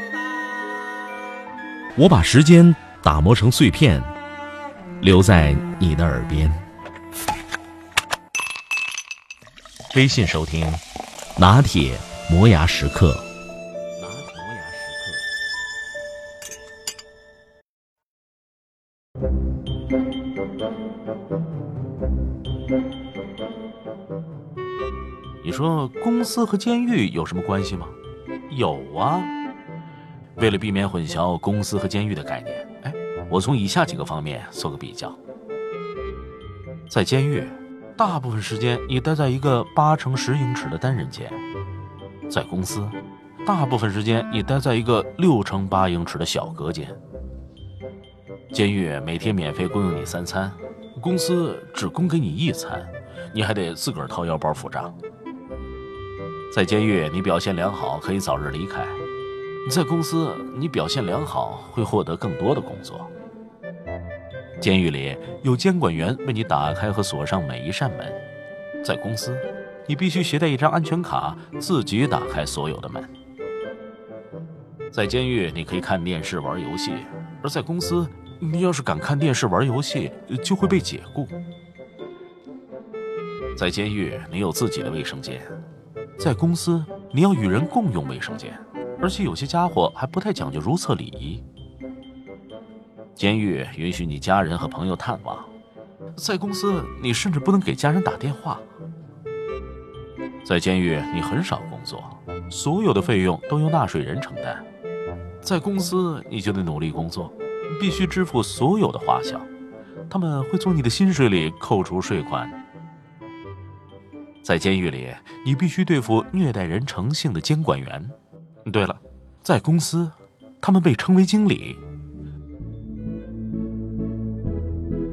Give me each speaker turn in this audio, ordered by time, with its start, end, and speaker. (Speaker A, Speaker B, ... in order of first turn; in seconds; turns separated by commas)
Speaker A: 1.9-4.1, Speaker A: 5.0-6.6, Speaker A: 9.9-10.8, Speaker A: 11.3-13.3, Speaker A: 14.0-15.2, Speaker A: 25.4-28.0, Speaker A: 28.5-29.3, Speaker A: 30.4-35.2, Speaker A: 36.9-41.4, Speaker A: 42.3-47.0, Speaker A: 48.5-54.9, Speaker A: 56.5-59.0, Speaker A: 59.6-63.1, Speaker A: 64.6-68.2, Speaker A: 68.8-73.1, Speaker A: 74.9-81.4, Speaker A: 83.5-85.5, Speaker A: 86.2-91.4, Speaker A: 93.1-95.5, Speaker A: 96.2-98.6, Speaker A: 100.4-104.7, Speaker A: 105.4-109.5, Speaker A: 110.1-112.6, Speaker A: 114.4-121.8